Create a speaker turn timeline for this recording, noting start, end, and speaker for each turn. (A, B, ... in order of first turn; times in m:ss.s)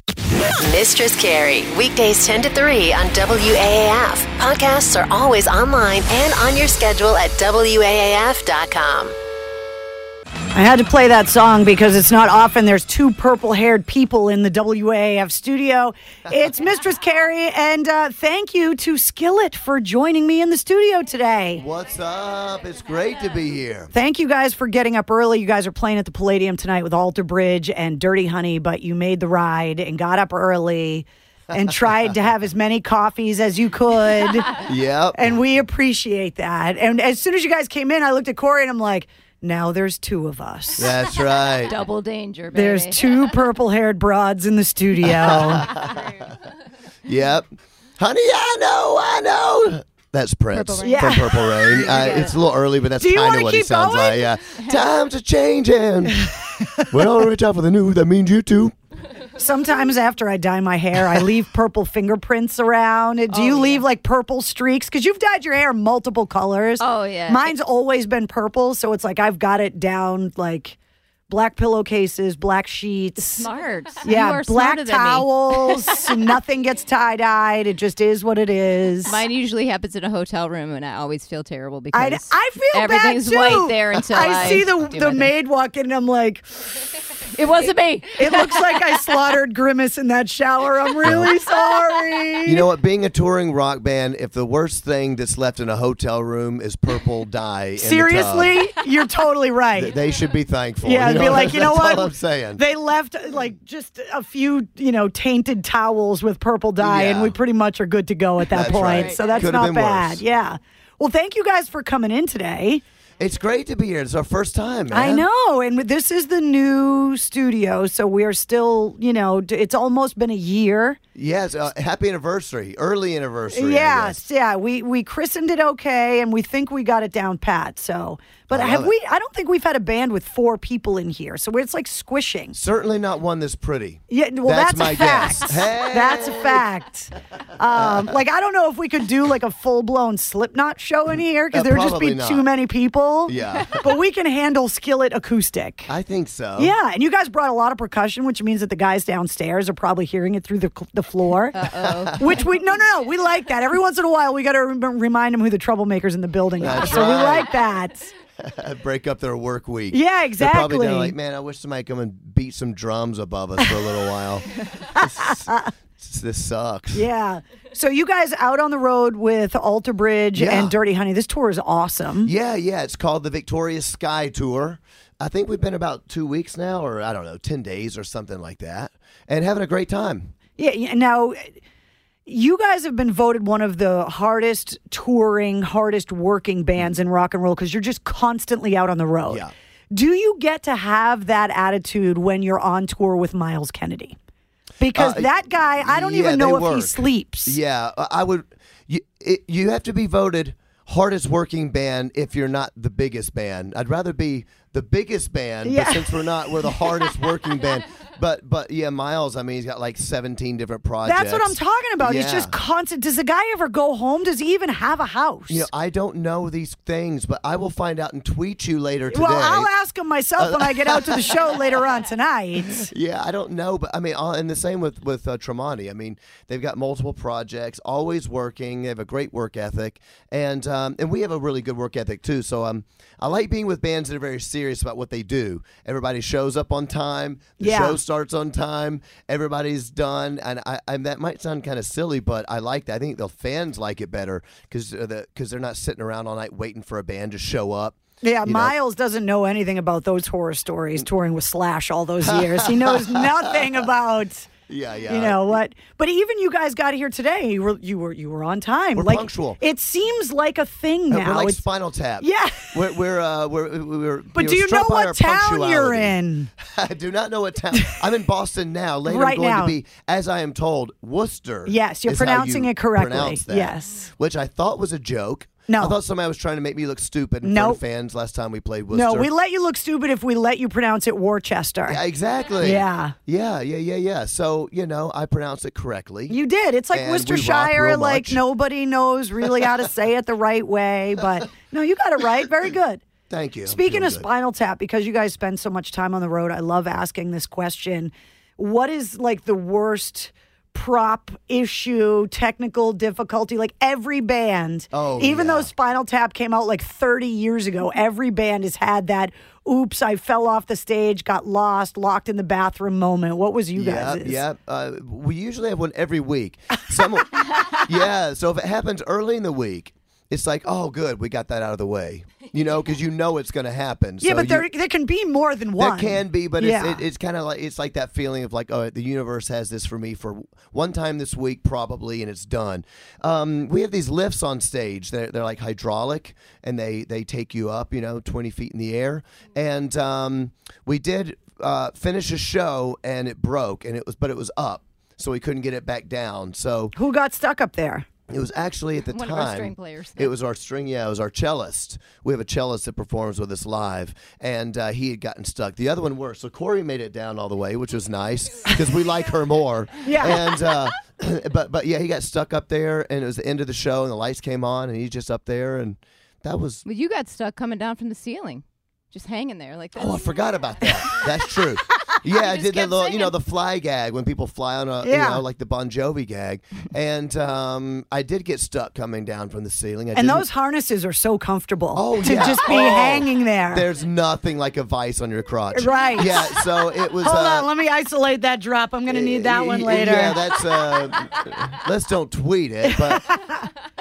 0:00.6-0:09.2 A
0:10.5-0:21.6 B
0:21.6-0:23.9 C
0:23.9-0:34.6 B
0:31.5-0:31.9 C
0:34.6-0:35.4 C
0:35.1-0:40.9 B
0:40.8-0:41.8 C
0:41.5-0:43.3 D
0:42.5-0:45.7 B
0:45.0-0:46.2 C
0:45.8-0:46.3 D
0:47.0-0:58.7 C
0:50.6-0:52.4 D
0:50.8-0:51.9 B
0:53.0-0:54.3 B
0:56.2-0:56.9 B
0:59.4-1:10.8 B
1:03.3-1:03.9 D
1:06.8-1:07.5 D
1:11.3-1:13.5 B
1:13.3-1:16.4 D
1:14.0-1:19.2 B
1:19.0-1:25.3 D
1:21.9-1:26.4 B
1:27.3-1:28.8 D
1:28.1-1:32.7 B
1:31.0-1:31.3 C
1:32.4-1:38.7 C
1:37.8-1:39.9 B
1:39.8-1:42.6 C
1:40.8-1:52.8 B
1:46.8-1:47.4 C
1:48.5-1:50.2 C
1:48.6-1:49.4 D
1:53.2-1:55.2 C
1:54.9-2:01.0 B
2:01.2-2:04.2 C
2:03.5-2:12.6 B
2:08.5-2:08.9 C
2:12.5-2:16.6 C
2:14.1-2:25.9 B
2:17.7-2:18.2 C
2:21.5-2:22.5 C
2:23.3-2:23.9 C
2:25.9-2:26.7 C
2:26.6-2:31.6 B
2:31.5-2:32.7 D
2:31.6-2:32.3 C
2:32.2-2:38.1 B
2:36.6-2:37.5 C
2:38.4-2:47.1 C
2:39.9-2:41.2 B
2:43.6-2:43.9 B
2:44.8-2:45.7 B
2:46.9-2:52.3 B
2:50.3-2:50.8 C
2:52.2-3:00.3 C
3:00.6-3:01.6 B
3:02.2-3:14.2 B
3:14.8-3:17.6 B
3:14.9-3:32.5 C
3:25.6-3:26.8 B
3:31.0-3:35.7 B
3:35.5-3:39.7 C
3:39.1-3:42.9 B
3:40.4-3:41.8 C
3:42.7-4:08.7 C
3:57.6-3:58.0 B
4:08.2-4:14.5 B
4:12.2-4:13.8 C
4:14.7-4:15.6 C
4:15.1-4:21.6 B
4:19.0-4:19.6 C
4:21.1-4:39.3 C
4:22.2-4:22.8 B
4:24.4-4:26.5 B
4:29.1-4:29.8 B
4:31.6-4:34.1 B
4:35.7-4:36.0 B
4:37.4-4:37.8 B
4:38.9-4:42.0 B
4:41.9-4:46.4 C
4:42.6-4:43.2 B
4:46.3-4:53.0 B
4:46.9-4:48.4 C
4:53.3-4:54.2 C
4:53.7-5:14.4 B
5:04.9-5:05.7 C
5:13.8-5:24.7 C
5:24.2-5:27.0 B
5:25.8-5:46.9 C
5:47.0-5:48.0 B
5:48.3-6:06.8 C
5:49.1-5:50.3 D
6:00.0-6:00.5 B
6:06.8-6:11.6 D
6:10.0-6:20.5 C
6:12.2-6:13.3 D
6:15.0-6:15.4 B
6:20.1-6:23.9 B
6:21.9-6:27.7 C
6:25.7-6:26.6 B
6:27.2-6:30.4 B
6:29.1-6:33.4 C
6:32.9-6:33.6 B